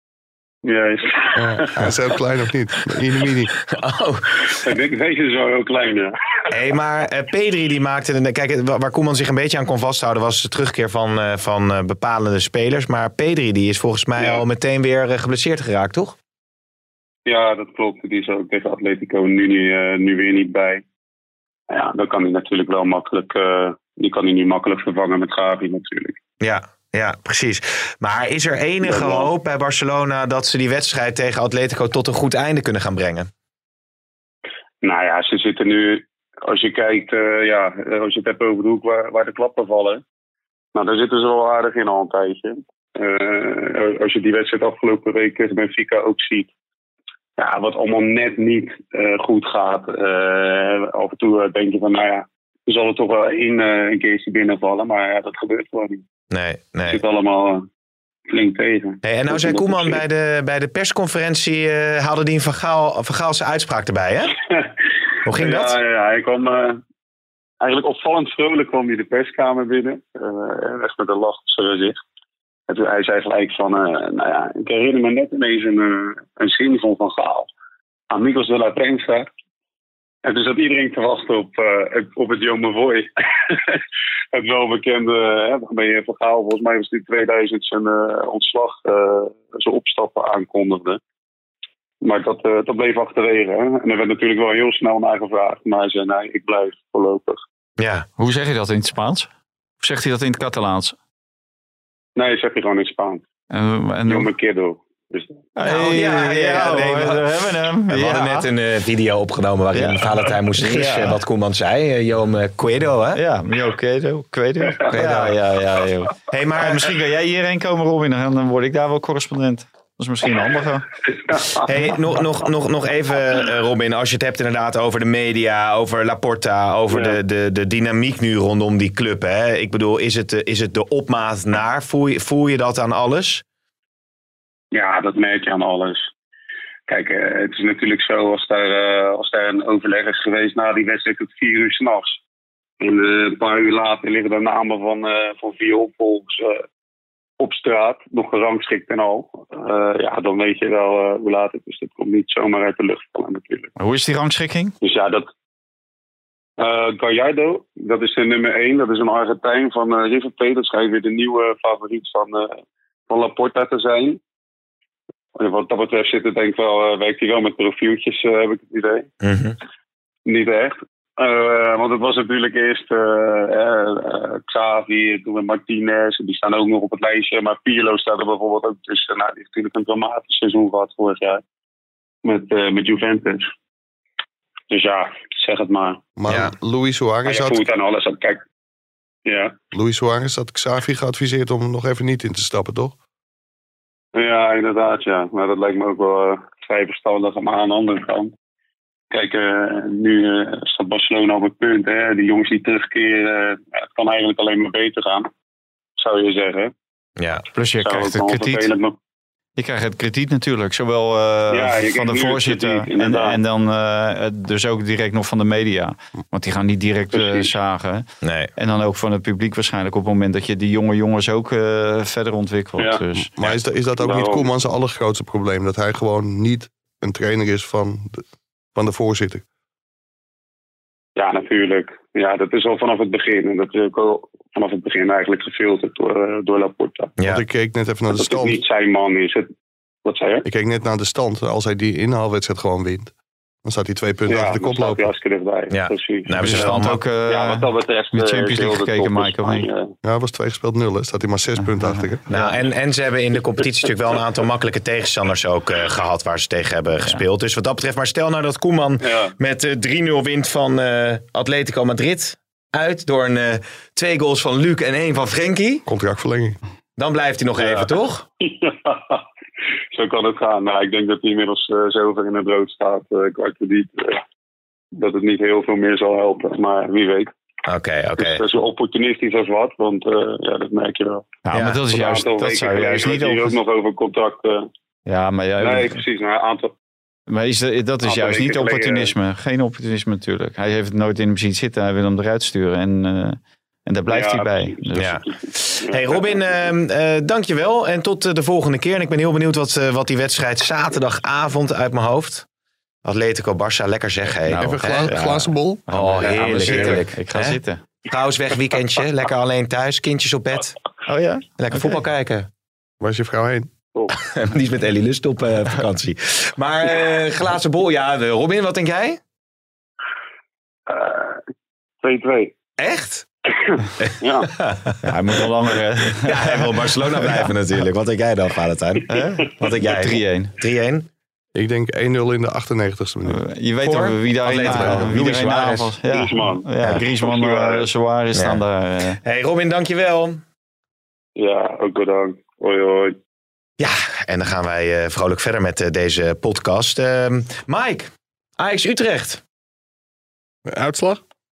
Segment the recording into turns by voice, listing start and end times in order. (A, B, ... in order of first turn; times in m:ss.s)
0:00.6-0:01.9 A
0:01.3-0:03.6 B
0:03.7-0:04.6 C
0:04.6-0:06.1 A
0:06.5-0:16.2 C
0:17.2-0:20.8 A
0:21.7-0:26.2 A
0:26.4-0:33.3 C
0:28.8-0:29.3 A
0:34.8-0:40.0 A
0:40.7-0:46.5 A
0:47.4-0:56.0 A
0:56.3-0:57.0 C
0:56.9-0:57.6 A
0:58.3-1:00.0 A
0:59.0-1:04.3 C
1:05.2-1:05.8 C
1:05.3-1:06.8 A
1:07.6-1:12.0 A
1:12.7-1:17.5 A
1:18.1-1:19.3 A
1:20.2-1:23.8 A
1:24.3-1:31.0 A
1:32.0-1:37.4 A
1:37.8-1:38.1 C
1:38.2-1:39.3 D
1:39.8-1:41.0 D
1:42.2-1:43.2 A
1:43.5-1:44.3 D
1:44.1-1:45.4 A
1:45.6-1:48.5 D
1:45.6-1:47.3 C
1:47.9-1:53.2 C
1:49.7-1:51.2 D
1:53.1-2:00.8 D
1:54.9-1:55.4 C
1:56.3-1:56.9 C
2:01.3-2:01.6 A
2:01.6-2:13.4 C
2:06.9-2:07.2 A
2:14.7-2:16.1 A
2:16.9-2:22.2 A
2:22.8-2:26.6 A
2:27.4-2:33.7 A
2:33.8-2:34.7 D
2:34.8-2:35.3 A
2:36.6-2:42.6 A
2:43.1-2:44.2 A
2:45.4-2:49.1 A
2:49.2-2:49.6 C
2:50.2-3:01.4 A
3:02.2-3:03.5 A
3:04.7-3:06.0 A
3:06.2-3:07.6 B
3:06.3-3:06.5 C
3:07.2-3:08.4 A
3:09.2-3:09.5 A
3:09.7-3:12.9 B
3:14.1-3:18.3 A
3:19.1-3:25.3 A
3:26.0-3:26.7 A
3:27.2-3:27.4 C
3:27.5-3:28.7 D
3:27.8-3:28.9 A
3:29.6-3:43.3 D
3:31.5-3:33.4 A
3:37.1-3:37.5 A
3:38.2-3:38.5 C
3:43.2-3:48.2 B
3:44.0-3:44.4 A
3:48.7-3:49.4 B
3:51.2-3:57.1 A
3:57.2-3:57.4 C
3:57.2-3:58.6 B
3:58.1-3:59.5 A
4:00.0-4:00.4 A
4:00.4-4:03.1 B
4:03.6-4:05.1 B
4:04.3-4:09.9 A
4:05.7-4:07.0 C
4:06.4-4:09.7 D
4:10.0-4:12.2 B
4:11.6-4:12.4 D
4:12.3-4:25.8 C
4:19.0-4:19.3 A
4:25.8-4:26.6 B
4:27.0-4:28.2 C
4:27.6-4:27.9 A
4:28.4-4:29.2 A
4:29.9-4:34.2 A
4:34.9-4:37.3 A
4:37.6-4:38.4 C
4:38.2-4:41.3 A
4:41.4-4:43.6 D
4:41.5-4:41.8 C
4:41.9-4:44.7 A
4:45.1-4:46.0 D
4:45.6-4:46.7 A
4:47.3-4:55.2 D
4:48.0-4:49.1 A
4:54.1-4:56.5 A
4:55.0-5:02.4 C
5:03.0-5:10.7 C
5:04.5-5:05.2 D
5:04.5-5:05.8 B
5:05.9-5:07.8 D
5:11.1-5:12.0 D
5:11.6-5:12.5 C
5:13.0-5:13.7 B
5:14.1-5:19.2 C
5:20.9-5:21.4 A
5:22.0-5:22.5 A
5:22.8-5:23.2 C
5:23.8-5:24.5 A
5:24.0-5:25.1 C
5:25.0-5:27.5 D
5:26.1-5:31.1 C
5:29.1-5:30.6 D
5:31.5-5:33.4 B
5:33.2-5:39.2 D
5:33.8-5:35.9 C
5:36.1-5:37.8 A
5:38.3-5:38.6 C
5:39.2-5:40.4 C
5:41.4-5:43.2 A
5:43.8-5:49.4 C
5:50.7-5:51.2 B